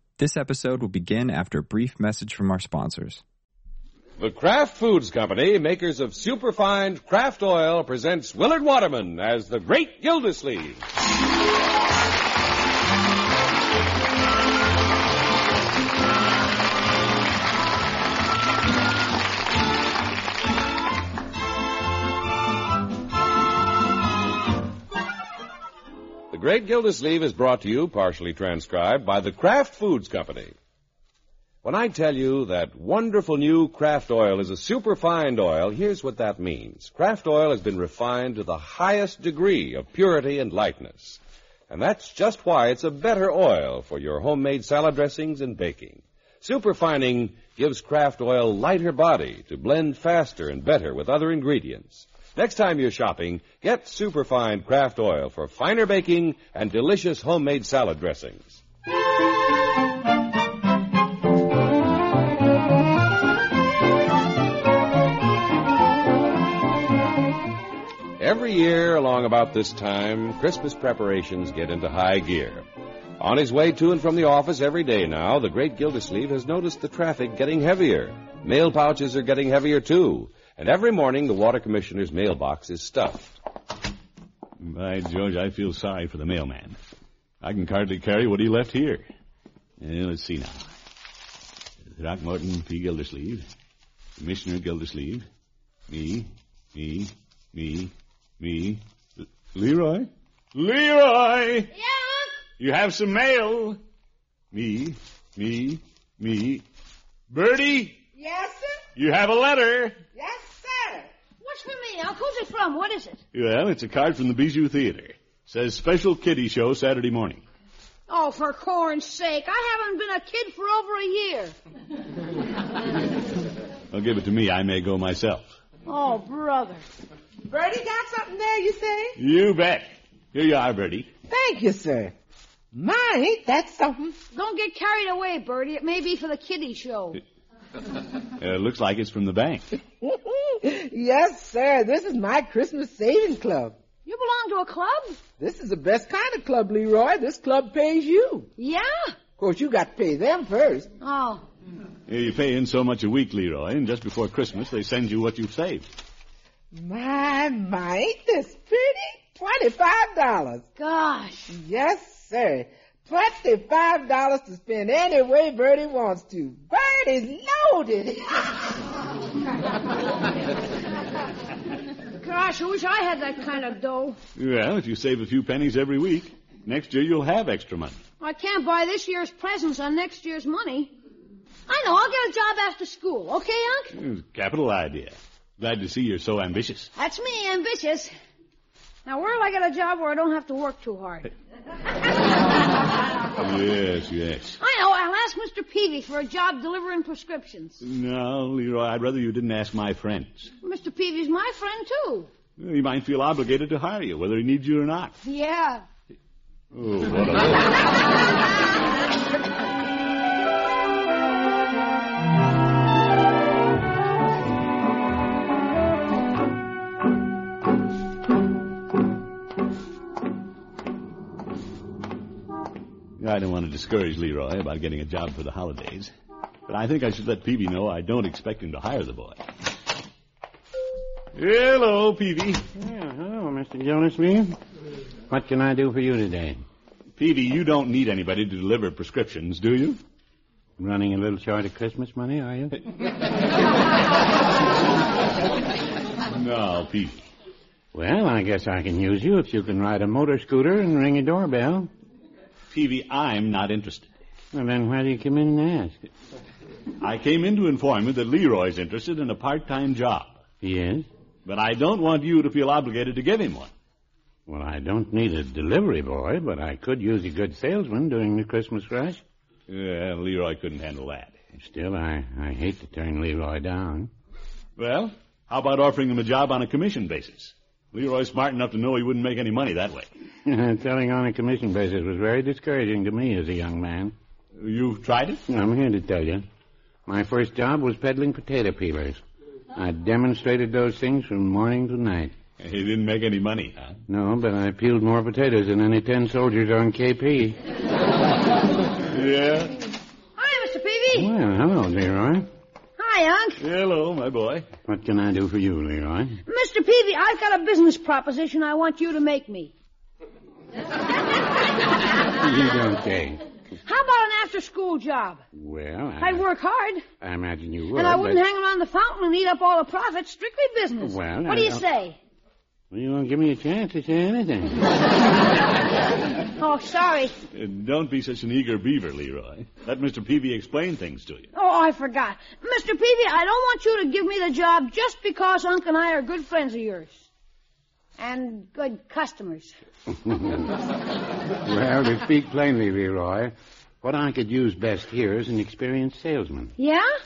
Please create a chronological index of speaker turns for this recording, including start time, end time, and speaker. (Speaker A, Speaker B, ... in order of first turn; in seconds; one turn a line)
Speaker A: 0.2-3.2
Speaker B: 4.2-10.8
Speaker B: 26.3-30.6
Speaker B: 31.6-58.6
Speaker B: 68.2-72.7
Speaker B: 73.2-83.3
Speaker C: 84.6-86.8
Speaker C: 87.4-89.0
Speaker C: 89.8-90.7
Speaker C: 91.9-93.5
Speaker C: 94.2-95.3
Speaker C: 95.9-101.7
Speaker D: 101.7-102.4
Speaker C: 102.6-103.8
Speaker C: 104.5-106.6
Speaker C: 107.3-108.0
Speaker E: 108.2-108.8
Speaker C: 109.0-110.0
Speaker E: 110.1-111.1
Speaker D: 111.4-113.2
Speaker C: 113.3-117.4
Speaker D: 118.1-121.5
Speaker C: 123.9-125.6
Speaker D: 125.9-126.8
Speaker E: 127.5-129.2
Speaker C: 129.2-131.1
Speaker E: 131.3-132.1
Speaker E: 132.7-134.2
Speaker D: 134.3-137.2
Speaker C: 138.4-139.7
Speaker E: 140.0-143.8
Speaker D: 144.1-145.2
Speaker E: 145.4-148.5
Speaker D: 148.6-149.1
Speaker E: 149.4-150.9
Speaker D: 151.0-151.4
Speaker C: 152.1-155.9
Speaker E: 156.7-160.7
Speaker D: 160.8-161.6
Speaker E: 161.5-168.8
Speaker D: 172.2-174.2
Speaker C: 174.4-178.0
Speaker D: 178.2-180.9
Speaker D: 181.7-183.9
Speaker C: 183.9-186.9
Speaker D: 187.0-188.1
Speaker D: 189.1-191.3
Speaker C: 193.4-194.6
Speaker D: 194.6-197.8
Speaker C: 197.8-200.5
Speaker D: 200.6-202.3
Speaker C: 202.6-205.2
Speaker D: 205.2-205.9
Speaker C: 206.7-207.8
Speaker C: 223.2-226.1
Speaker C: 226.7-229.4
Speaker C: 231.3-232.6
Speaker F: 232.8-234.6
Speaker F: 235.3-236.6
Speaker C: 237.2-240.0
Speaker F: 240.8-242.8
Speaker C: 246.3-247.3
Speaker F: 247.9-251.9
Speaker C: 252.7-254.1
Speaker F: 254.5-256.1
Speaker C: 257.0-260.4
Speaker F: 260.6-261.1
Speaker C: 261.4-263.7
Speaker F: 264.5-269.2
Speaker C: 269.7-271.4
Speaker F: 271.6-274.1
Speaker C: 274.8-280.1
Speaker F: 280.5-284.1
Speaker C: 284.6-285.4
Speaker F: 285.5-286.4
Speaker F: 287.1-289.2
Speaker F: 289.8-292.3
Speaker C: 292.6-294.0
Speaker F: 294.1-297.6
Speaker C: 299.1-299.8
Speaker D: 300.4-301.3
Speaker F: 301.2-302.5
Speaker D: 303.0-303.6
Speaker C: 303.6-304.7
Speaker F: 304.9-306.4
Speaker D: 306.5-309.7
Speaker F: 312.3-313.4
Speaker D: 313.9-315.4
Speaker F: 315.5-316.4
Speaker D: 316.2-317.1
Speaker F: 317.2-318.4
Speaker D: 317.9-322.2
Speaker F: 321.0-321.8
Speaker F: 322.9-324.9
Speaker D: 326.6-327.3
Speaker C: 327.5-331.5
Speaker D: 331.5-337.3
Speaker D: 338.2-339.8
Speaker F: 340.2-340.7
Speaker F: 341.6-346.7
Speaker D: 346.8-347.1